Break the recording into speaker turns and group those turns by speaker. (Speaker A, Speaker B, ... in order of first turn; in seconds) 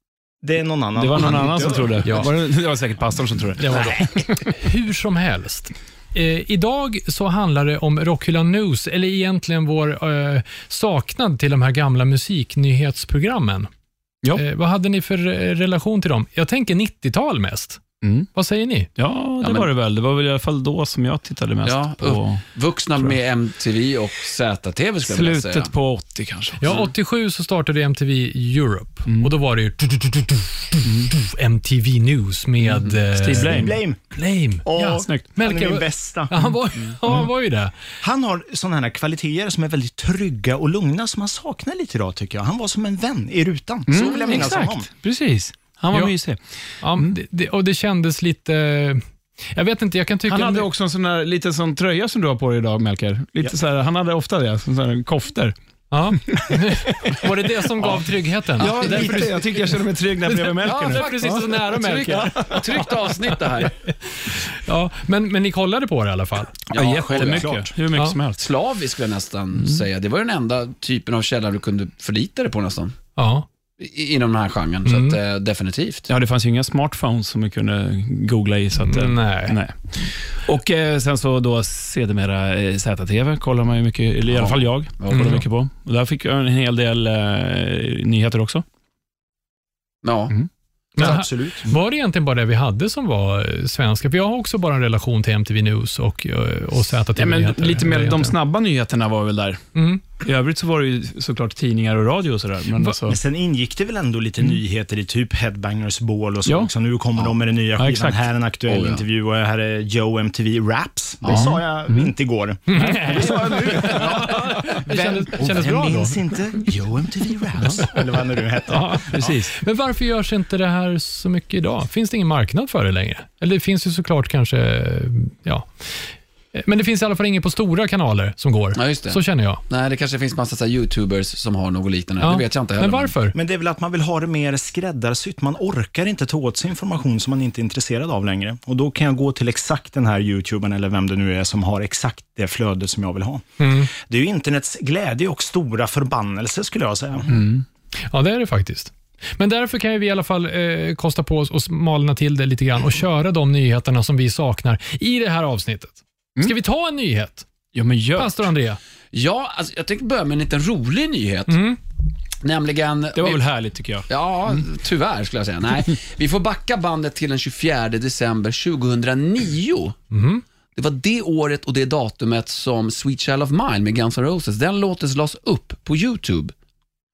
Speaker A: 0.4-2.3, 33.4-34.0, 34.6-36.6, 38.0-44.9, 66.8-67.7, 91.0-91.7, 103.0-119.4, 133.3-147.3
Speaker B: 0.9-4.5, 18.0-18.3, 19.0-22.4, 25.0-26.7, 30.8-31.1, 33.1-33.8, 35.0-35.3, 43.9-46.4, 50.3-55.5, 56.1-61.5, 62.1-62.6, 66.7-68.5, 76.1-88.6, 97.2-99.6, 100.2-103.2, 106.5-106.7, 107.8-108.2, 111.3-112.1, 113.0-114.0, 119.2-119.5, 147.3-147.6, 157.7-158.5, 163.1-164.1
Speaker C: 2.0-2.3, 3.6-13.7, 14.3-17.8, 18.3-18.9, 26.6-37.8, 46.8-50.7, 55.9-66.5, 73.2-73.5, 74.8-75.2, 78.8-79.6, 85.1-85.4, 91.0-98.3, 99.7-100.0, 112.7-116.2, 118.7-125.7, 126.5-129.6, 132.2-133.3, 143.6-143.9, 148.0-157.4, 158.2-158.8, 161.5-161.8, 170.1-170.4
Speaker D: 19.4-19.7, 21.6-25.7, 32.7-32.9, 43.9-44.4, 58.6-59.3, 60.6-63.7, 66.7-67.6, 68.4-73.0, 73.8-76.1, 84.3-85.4, 90.0-90.3, 108.7-109.0, 111.2-111.5, 128.7-133.1, 159.1-161.6, 162.4-163.4, 164.1-169.9, 170.8-176.5